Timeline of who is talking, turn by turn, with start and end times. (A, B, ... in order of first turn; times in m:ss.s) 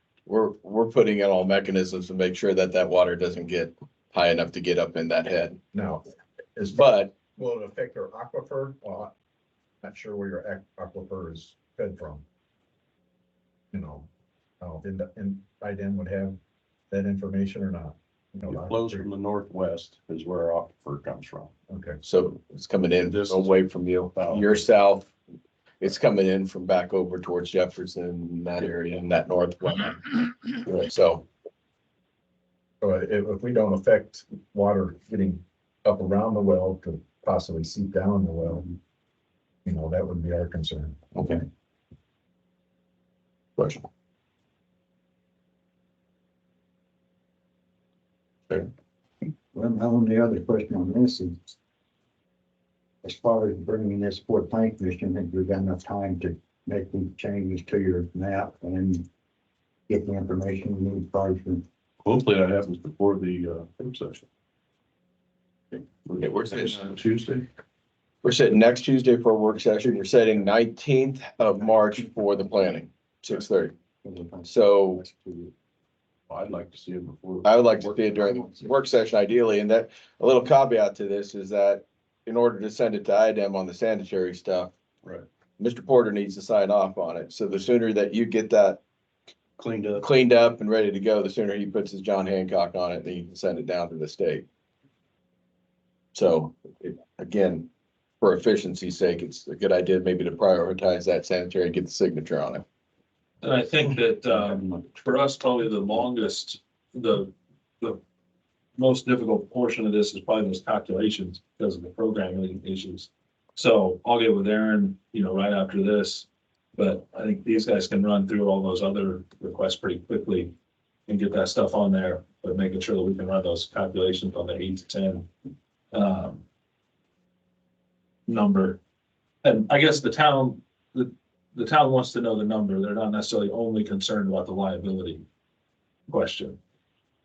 0:00.3-0:05.6 A
0:05.7-0:06.0 B
0:06.6-0:09.1 B
0:06.7-0:07.2 A
0:09.8-0:12.2 B
0:13.7-0:14.1 B
0:14.6-0:16.4 B
0:16.9-0:19.0 B
0:18.5-0:21.5 C
0:21.7-0:22.0 B
0:22.0-0:25.1 A
0:23.0-0:23.6 C
0:24.1-0:24.7 C
0:25.8-0:31.3 A
0:32.8-0:38.8 B
0:39.6-0:41.0 B
0:41.2-0:41.4 A
0:43.6-0:43.8 A
0:49.5-0:51.5 D
0:53.0-0:59.1 D
0:59.9-1:01.6 D
1:02.0-1:04.2 C
1:06.0-1:07.5 C
1:06.2-1:06.5 A
1:08.2-1:13.7 A
1:14.0-1:15.5 D
1:14.5-1:15.0 A
1:16.3-1:17.6 C
1:17.4-1:24.7 A
1:18.0-1:18.7 D
1:25.6-1:28.8 A
1:29.6-1:30.1 C
1:30.0-1:34.5 A
1:36.2-1:37.7 A
1:38.2-1:42.6 A
1:43.4-1:48.0 E
1:44.3-1:44.8 D
1:48.8-2:00.5 E
2:01.1-2:05.3 E
2:05.9-2:06.4 E
2:08.3-2:08.8 E
2:09.4-2:15.2 E
2:16.1-2:16.6 E